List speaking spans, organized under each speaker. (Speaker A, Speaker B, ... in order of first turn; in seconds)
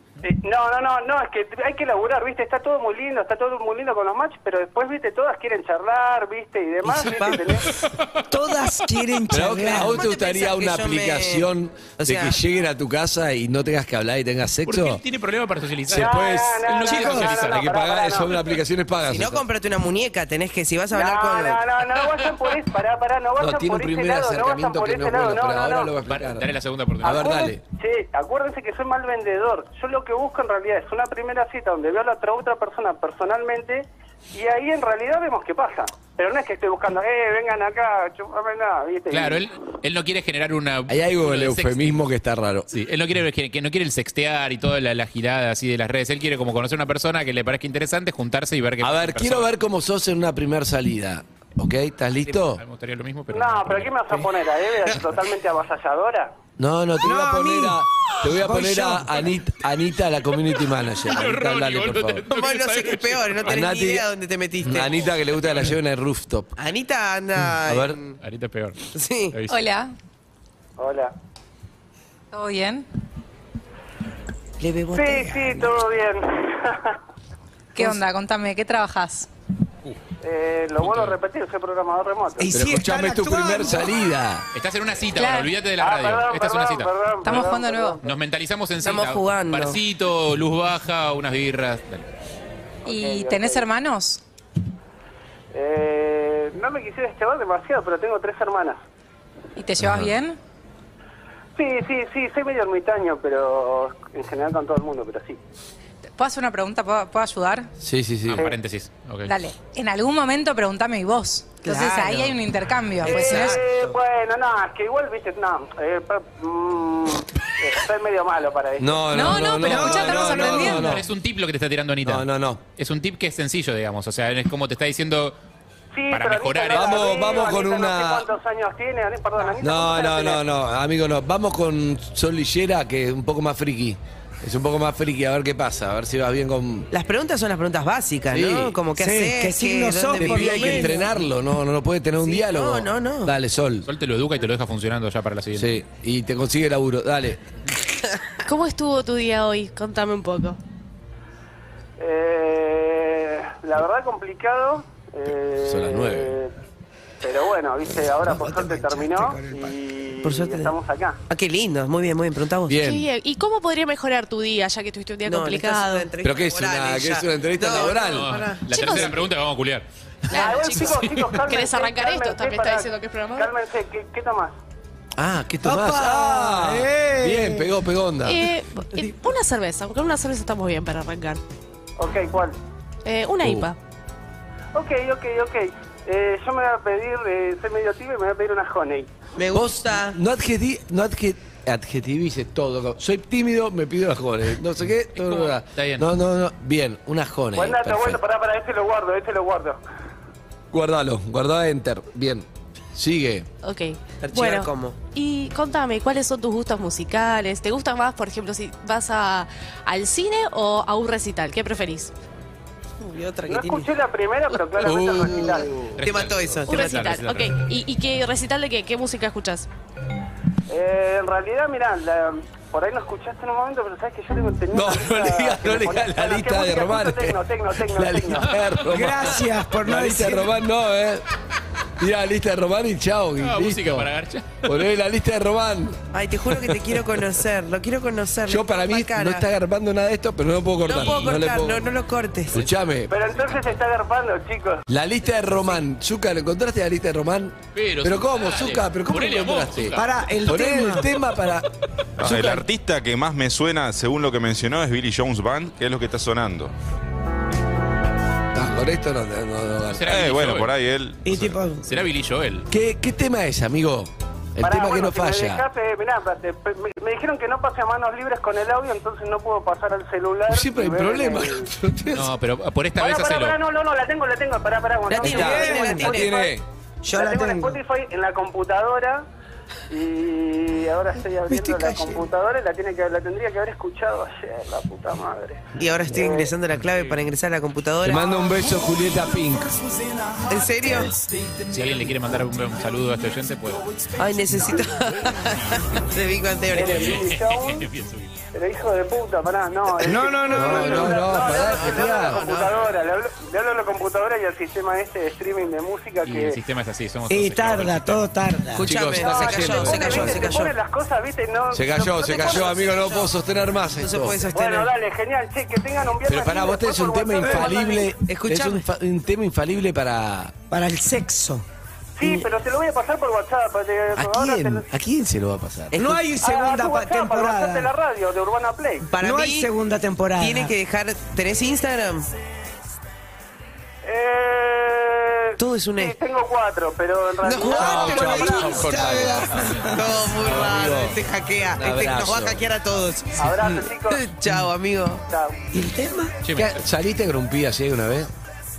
Speaker A: 0.2-7.8, 15.9-18.4, 20.9-25.9, 27.0-39.5, 53.3-56.3, 70.8-71.1, 74.9-77.0, 80.2-82.5, 85.8-88.0, 92.9-93.7, 95.5-98.8, 101.5-105.4, 113.0-119.4, 125.9-130.4, 152.0-156.5, 157.2-161.2, 170.3-174.5, 182.0-182.6, 184.7-189.1, 197.6-199.8, 213.5-215.7, 220.7-228.5, 243.1-244.8, 264.6-271.7, 273.0-276.5, 277.1-279.2, 279.9-286.5, 296.7-297.9, 298.5-306.6, 309.1-312.9, 314.5-318.1, 322.2-324.9, 326.4-329.1, 334.0-338.7, 343.4-344.3, 345.3-345.6
Speaker B: 6.8-7.7, 9.7-11.5, 12.0-12.4, 19.1-21.6, 62.3-65.1, 66.6-68.2, 68.9-69.4, 74.6-75.8, 88.8-89.8, 111.6-112.3, 113.1-113.6, 136.9-141.0, 142.2-143.3, 160.2-160.7, 161.3-162.8, 165.2-168.7, 189.4-190.2, 204.2-205.0, 213.0-213.9, 216.0-217.2, 236.1-239.4, 240.8-242.6, 275.1-276.3, 285.8-288.4, 290.5-291.1, 294.1-297.2, 301.5-302.8, 308.8-310.7, 312.3-313.3, 314.0-314.9, 318.3-318.8, 329.1-329.7, 330.4-332.3, 335.6-336.1, 337.4-338.2, 339.9-345.2
Speaker C: 8.3-10.0, 16.9-17.2, 57.0-59.2, 82.4-83.9, 119.6-121.0, 138.9-141.1, 158.3-159.7, 175.6-177.7, 228.8-230.5, 249.9-251.1, 261.2-261.9, 275.2-276.3, 277.0-277.8, 281.8-282.0, 300.0-301.1, 307.3-308.9, 317.4-317.9, 320.7-321.6, 325.9-327.9, 329.2-330.7, 337.6-339.9, 345.7-346.4
Speaker D: 9.3-15.0, 15.9-19.4, 23.4-27.6, 40.9-42.7, 48.8-52.6, 56.6-62.2, 63.5-64.1, 64.6-66.5, 67.6-68.0, 82.5-84.5, 99.8-100.1, 107.8-108.5, 118.8-121.1, 122.0-122.6, 126.7-128.3, 129.6-136.9, 138.3-138.8, 140.2-143.9, 145.6-147.4, 155.6-156.4, 162.7-163.1, 166.2-168.9, 175.2-179.0, 183.4-183.7, 189.5-198.2, 200.7-203.5, 214.8-215.9, 224.7-231.2, 232.0-234.1, 234.6-237.0, 238.5-241.8, 242.5-243.1, 244.9-252.6, 258.5-260.1, 262.7-265.6, 270.5-272.3, 275.2-276.6, 288.0-289.8, 300.5-302.5, 308.8-310.6, 311.7-314.4, 316.2-320.5, 324.1-326.2, 337.7-339.6, 340.4-341.2, 341.7-342.6, 346.5-348.3
Speaker E: 14.6-17.6, 26.1-27.4, 39.1-42.0, 42.7-49.5, 52.2-54.3, 61.0-63.5, 65.2-65.7, 68.2-68.8, 69.3-69.6, 80.8-81.2, 84.5-87.5, 88.0-92.1, 108.3-109.3, 120.6-125.4, 126.1-127.2, 143.9-145.8, 167.9-169.8, 170.8-171.3, 195.1-196.1, 215.9-217.6, 233.4-234.8, 240.9-241.4, 247.7-250.0, 252.2-252.6, 259.9-260.7, 261.2-262.7, 272.1-273.6, 291.7-293.8, 296.9-298.3, 306.2-308.2, 338.6-340.0, 346.4-346.8
Speaker F: 69.5-69.9, 72.3-72.9, 77.7-79.3, 85.2-85.5, 87.2-88.0, 92.8-94.2, 99.5-100.4, 106.2-107.7, 109.2-113.6, 119.1-120.9
Speaker G: 148.4-150.6, 162.8-166.1, 168.7-169.2, 170.3-173.5, 178.2-181.4, 183.0-183.8, 203.6-212.1, 216.7-219.7
Speaker H: 252.2-256.7, 260.1-261.4